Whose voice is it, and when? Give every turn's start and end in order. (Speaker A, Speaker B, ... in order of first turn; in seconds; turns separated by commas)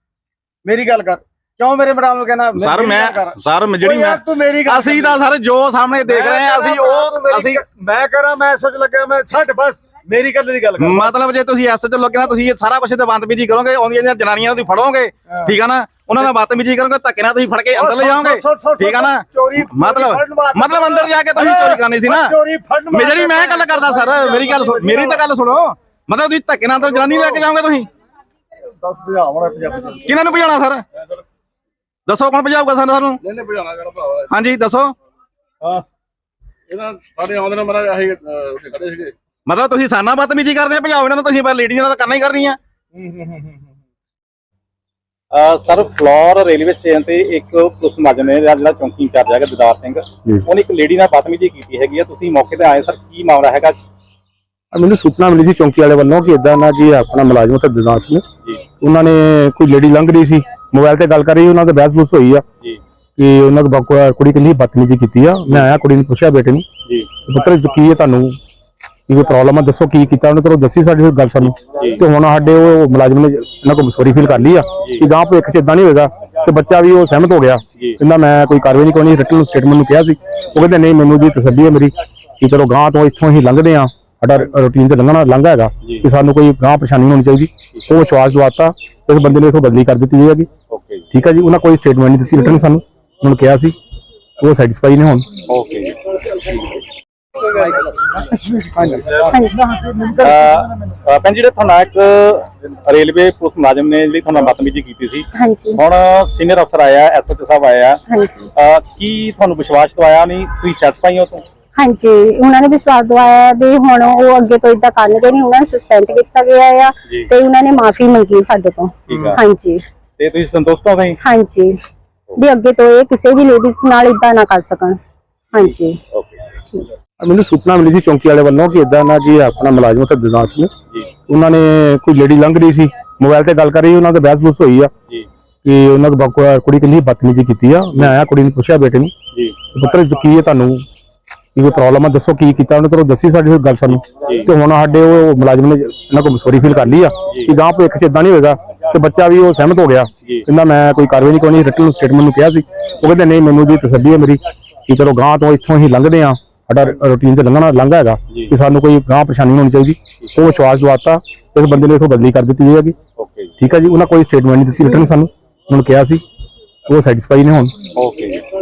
Speaker A: 0.7-5.2, Speaker B: 2.6-7.6, Speaker A: 6.0-11.1, Speaker B: 10.8-22.3, Speaker A: 15.3-15.6, Speaker A: 17.7-25.2, Speaker B: 22.9-27.9, Speaker A: 26.8-27.4, Speaker A: 28.8-30.0, Speaker B: 30.0-30.9, Speaker B: 32.1-33.2, Speaker C: 33.2-34.3, Speaker B: 34.3-34.9, Speaker C: 36.7-39.1, Speaker B: 39.5-42.6, Speaker A: 42.9-43.7, Speaker D: 45.3-53.8, Speaker E: 54.7-58.2, Speaker E: 58.8-62.4, Speaker E: 63.2-66.7, Speaker E: 67.3-68.4, Speaker E: 69.1-90.5, Speaker D: 90.7-91.1, Speaker E: 91.1-93.8, Speaker E: 94.4-95.3, Speaker D: 95.5-96.0, Speaker C: 97.5-98.2, Speaker A: 98.4-100.3, Speaker F: 99.3-99.7, Speaker D: 100.2-105.3, Speaker F: 105.4-105.8, Speaker D: 105.8-108.0, Speaker F: 108.1-108.5, Speaker D: 108.6-111.4, Speaker F: 111.8-119.8, Speaker B: 119.1-119.4, Speaker D: 119.1-119.4, Speaker D: 120.2-121.2, Speaker F: 121.2-121.7, Speaker F: 122.4-125.0, Speaker F: 125.5-126.0, Speaker D: 125.7-126.3, Speaker E: 127.2-130.7, Speaker E: 131.3-134.9, Speaker E: 135.7-139.1, Speaker E: 139.7-140.8, Speaker E: 141.6-163.0, Speaker D: 163.2-163.5, Speaker E: 163.6-166.2, Speaker E: 166.9-167.7, Speaker D: 168.0-168.5